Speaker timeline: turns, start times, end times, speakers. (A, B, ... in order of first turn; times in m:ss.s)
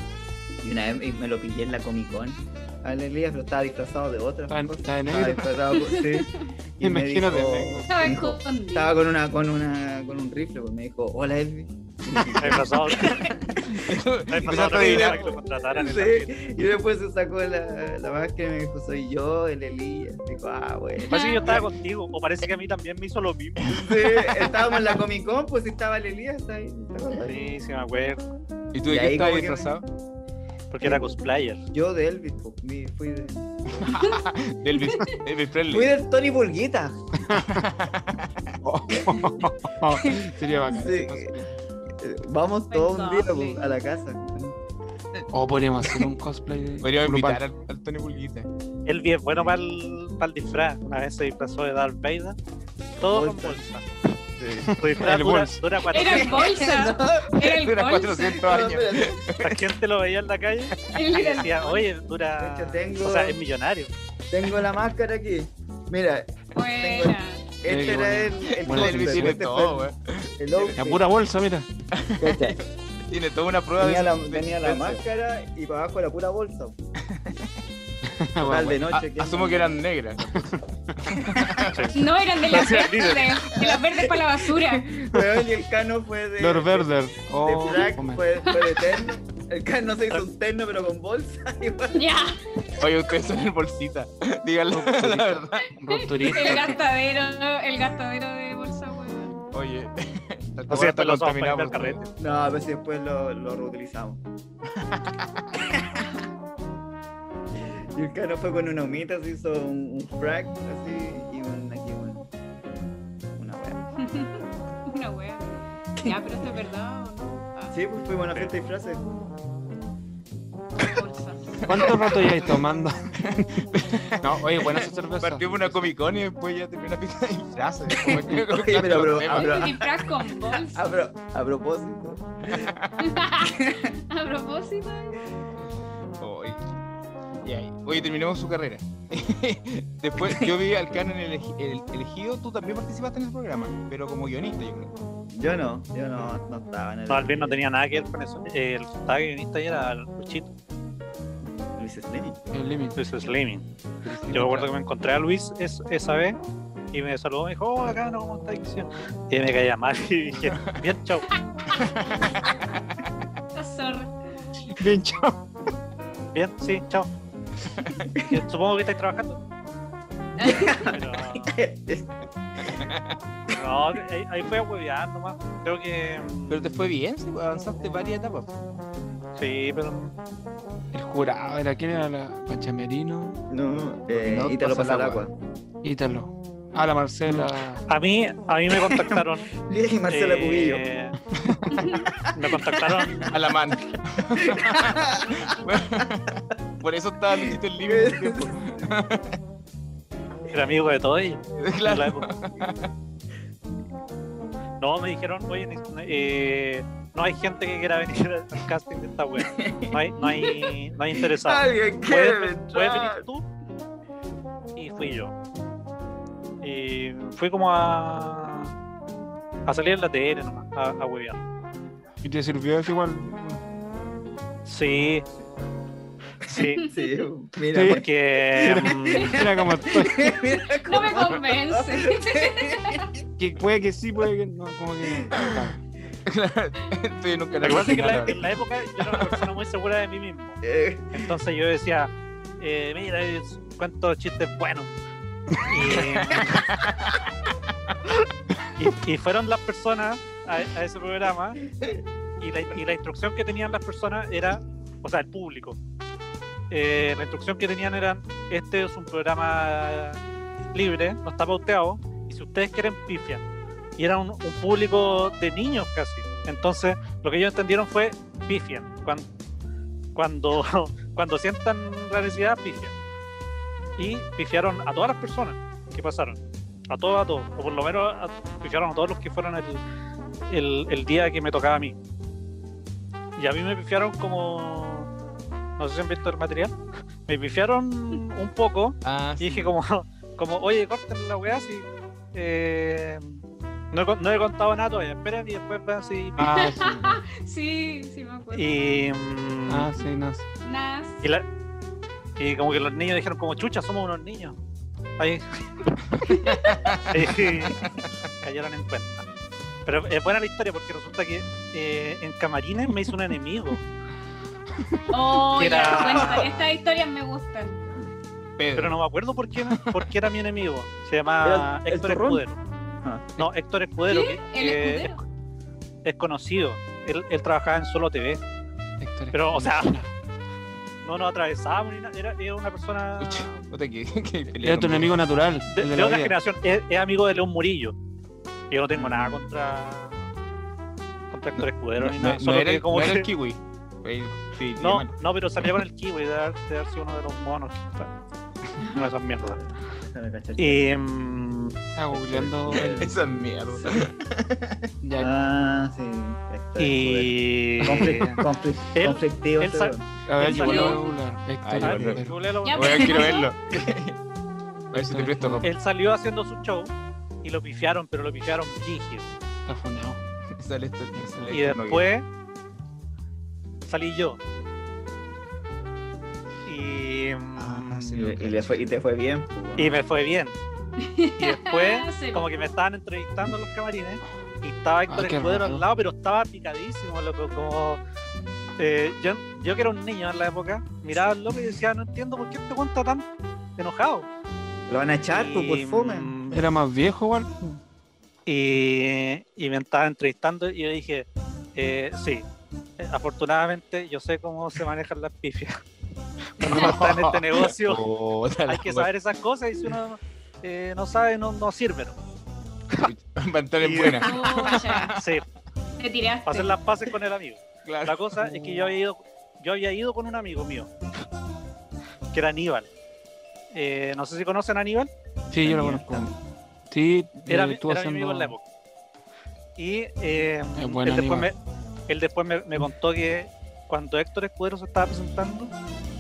0:00.6-0:13.8 A
0:04.5-0:05.5 B
0:05.8-0:06.5 C
0:06.8-0:08.2 B
0:07.9-0:08.9 C
0:12.4-0:13.3 D
0:13.7-0:15.3 E
0:14.3-0:16.4 D
0:14.5-0:21.6 A
0:21.1-0:21.6 C
0:21.1-0:23.8 D
0:23.7-0:27.4 A
0:23.8-0:24.6 E
0:27.2-0:28.3 D
0:28.7-0:29.8 E
0:28.9-0:29.8 A
0:30.7-0:31.6 D
0:30.8-0:31.2 A
0:31.7-0:33.4 A
0:33.7-0:35.9 E
0:34.8-0:35.1 C
0:35.7-0:37.0 A
0:37.2-0:37.6 B
0:37.3-0:38.5 E
0:38.6-0:41.5 B
0:40.7-0:41.3 A
0:42.0-0:44.6 A
0:42.7-0:43.6 C
0:45.3-0:47.4 B
0:46.8-0:48.5 E
0:48.9-0:52.4 D
0:53.0-0:53.8 D
0:53.0-0:53.6 A
0:54.4-0:54.7 A
0:54.6-0:55.6 B
0:54.8-0:56.6 D
0:55.9-0:58.4 C
0:56.1-0:57.2 A
0:56.6-0:59.6 E
0:58.2-0:59.3 A
0:59.4-1:03.9 D
1:00.9-1:01.9 C
1:02.4-1:03.4 A
1:04.3-1:11.0 A
1:06.5-1:07.5 C
1:07.6-1:09.4 B
1:08.5-1:10.8 E
1:10.8-1:11.7 B
1:11.9-1:15.0 E
1:12.2-1:12.6 A
1:13.8-1:16.8 A
1:17.0-1:17.5 E
1:18.1-1:18.9 B
1:18.4-1:19.7 A
1:18.9-1:21.9 E
1:20.2-1:20.6 B
1:21.7-1:23.4 D
1:21.9-1:25.0 C
1:23.7-1:26.9 A
1:26.4-1:28.2 B
1:27.4-1:32.1 A
1:28.5-1:28.9 C
1:31.9-1:32.4 C
1:32.8-1:35.7 E
1:34.7-1:36.8 B
1:35.9-1:39.4 C
1:39.5-1:42.1 E
1:40.7-1:42.0 D
1:42.2-1:44.2 A
1:44.7-1:45.5 E
1:47.8-1:52.3 A
1:53.4-1:53.9 A
1:54.0-1:57.8 C
1:56.0-1:56.6 A
1:57.7-1:59.1 A
2:00.8-2:01.9 C
2:01.7-2:03.7 B
2:03.2-2:09.7 E
2:04.2-2:05.9 B
2:08.0-2:12.7 A
2:09.3-2:10.8 C
2:12.5-2:13.0 E
2:13.0-2:15.3 C
2:13.4-2:13.9 A
2:16.2-2:16.6 E
2:17.4-2:25.0 E
2:20.2-2:20.5 A
2:25.3-2:27.6 A
2:27.1-2:30.5 D
2:31.8-2:32.4 A
2:32.5-2:33.0 B
2:33.0-2:33.6 D
2:34.0-2:34.7 E
2:34.3-2:36.4 D
2:36.9-2:41.3 D
2:41.7-2:42.8 E
2:43.6-2:44.1 C
2:44.7-2:45.4 B
2:46.3-2:47.1 D
2:47.8-2:48.1 E
2:48.2-2:49.4 D
2:50.4-2:50.9 C
2:50.4-2:52.1 A
2:50.8-2:51.5 D
2:52.6-2:53.2 E
2:53.5-2:56.8 D
2:56.5-2:58.7 E
2:59.4-3:00.1 D
3:00.9-3:03.4 B
3:03.5-3:05.3 A
3:04.2-3:05.2 E
3:05.8-3:07.8 B
3:07.9-3:09.5 D
3:08.8-3:10.8 A
3:10.1-3:11.2 D
3:11.7-3:12.0 C
3:12.3-3:13.3 D
3:12.4-3:13.1 A
3:13.3-3:19.4 E
3:14.4-3:16.0 A
3:17.4-3:18.9 A
3:20.5-3:22.3 D
3:21.6-3:22.9 E
3:24.8-3:33.4 D
3:29.6-3:33.2 A
3:34.8-3:35.4 D
3:36.6-3:38.7 D
3:39.7-3:41.4 D
3:42.2-3:43.6 B
3:44.7-3:45.3 D
3:46.5-3:46.9 D
3:46.6-3:46.9 C
3:46.8-3:53.2 A
3:47.7-3:48.0 B
3:47.9-3:49.4 D
3:48.7-3:50.4 B
3:50.7-3:53.1 C
3:53.4-3:55.8 B
3:55.1-3:55.4 A
3:56.2-3:58.5 E
3:57.6-4:00.6 D
3:57.9-3:58.4 A
4:00.6-4:01.3 A
4:01.1-4:04.9 D
4:05.6-4:06.7 D
4:05.9-4:07.2 E
4:08.8-4:11.7 D
4:12.4-4:15.8 D
4:16.7-4:20.2 D
4:20.7-4:23.4 D
4:24.0-4:29.3 D
4:30.2-4:32.9 D
4:34.0-4:39.8 D
4:40.5-4:42.0 D
4:43.4-4:45.1 D
4:45.8-4:46.7 D
4:47.3-4:53.4 D
4:49.0-4:49.7 E
4:53.9-4:56.7 D
4:56.4-4:57.2 B
4:56.5-4:58.8 C
4:58.5-4:59.9 D
4:59.7-5:00.5 B
5:00.6-5:01.2 C
5:02.4-5:04.6 D
5:05.2-5:06.4 D
5:06.3-5:06.6 C
5:06.4-5:07.9 E
5:07.1-5:07.9 D
5:08.4-5:09.2 D
5:09.9-5:13.8 D
5:15.1-5:17.8 C
5:15.5-5:16.7 D
5:16.0-5:16.4 A
5:18.6-5:19.0 E
5:18.8-5:22.6 D
5:19.7-5:19.9 E
5:21.4-5:22.4 A
5:23.0-5:23.3 A
5:23.4-5:25.2 D
5:24.1-5:25.2 C
5:26.0-5:28.4 D
5:29.0-5:30.1 B
5:29.3-5:30.0 D
5:31.0-5:33.5 D
5:33.2-5:35.2 E
5:34.6-5:36.4 B
5:35.7-5:38.0 D
5:38.7-5:40.3 D
5:41.3-5:43.3 D
5:41.6-5:45.2 E
5:44.8-5:48.1 D
5:48.8-5:49.1 C
5:48.8-5:49.6 D
5:49.4-5:50.9 A
5:50.6-5:51.8 D
5:52.0-5:53.1 B
5:52.1-5:53.1 A
5:52.7-5:54.9 E
5:53.7-5:54.1 A
5:55.0-5:55.3 B
5:55.2-6:00.0 A
5:56.8-5:58.4 D
5:58.9-6:01.1 D
6:00.3-6:02.4 B
6:00.4-6:01.2 C
6:01.6-6:04.2 E
6:01.8-6:03.4 D
6:02.6-6:03.5 C
6:04.9-6:05.7 E
6:04.9-6:05.7 B
6:05.6-6:06.9 D
6:07.4-6:09.3 D
6:09.7-6:10.2 B
6:10.6-6:12.1 E
6:11.2-6:11.6 B
6:11.5-6:12.2 D
6:13.9-6:14.4 D
6:16.6-6:18.2 D
6:17.6-6:18.8 E
6:18.2-6:20.0 A
6:19.8-6:20.6 D
6:21.0-6:22.5 C
6:21.4-6:28.0 D
6:25.1-6:25.8 B
6:28.8-6:33.3 D
6:33.8-6:34.3 D
6:34.9-6:36.3 A
6:35.3-6:36.6 D
6:36.5-6:37.5 B
6:38.5-6:42.4 D
6:43.0-6:45.8 D
6:46.6-6:48.0 D
6:46.6-6:49.1 E
6:48.7-6:52.2 D
6:53.0-6:55.4 E
6:53.8-6:55.4 D
6:54.2-6:55.1 C
6:56.0-6:56.7 C
6:56.5-7:00.9 D
6:57.8-6:58.3 E
7:02.3-7:02.9 D
7:03.7-7:05.1 D
7:05.5-7:06.4 B
7:05.6-7:06.3 A
7:06.9-7:08.6 B
7:07.5-7:08.6 D
7:09.8-7:11.6 D
7:10.8-7:11.5 B
7:12.1-7:15.7 D